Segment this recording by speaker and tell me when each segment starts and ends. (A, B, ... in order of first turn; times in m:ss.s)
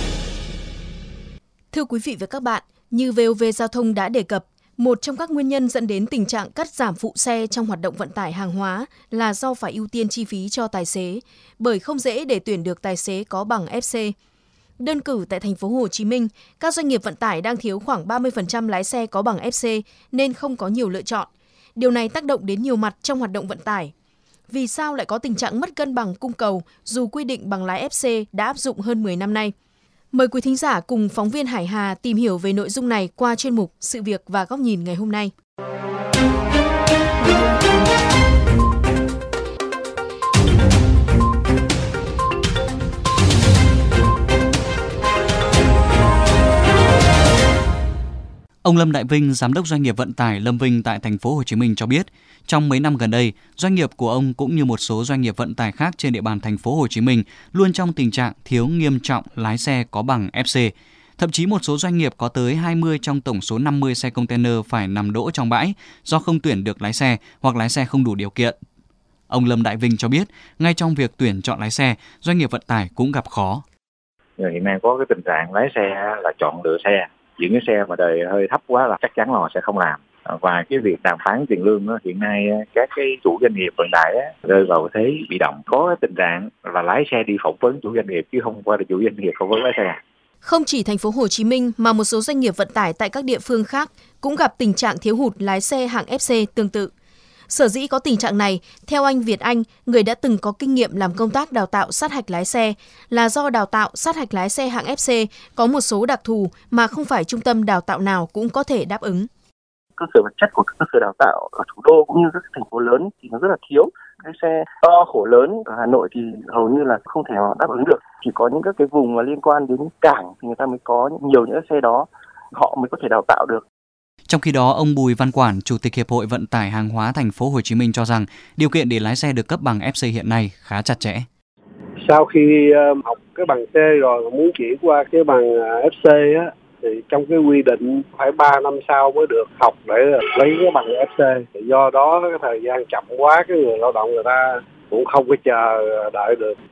0:01.7-0:14.1 A
0:14.8-0:23.9 A
0:24.5-0:29.5 A
0:30.1-0:35.3 A
0:48.6-1:08.5 B
1:09.3-1:13.6 B
1:14.4-1:30.0 C
1:30.4-1:36.9 A
1:37.5-1:49.3 A
1:50.0-2:03.6 D
2:04.3-2:11.3 B
2:12.0-2:26.6 E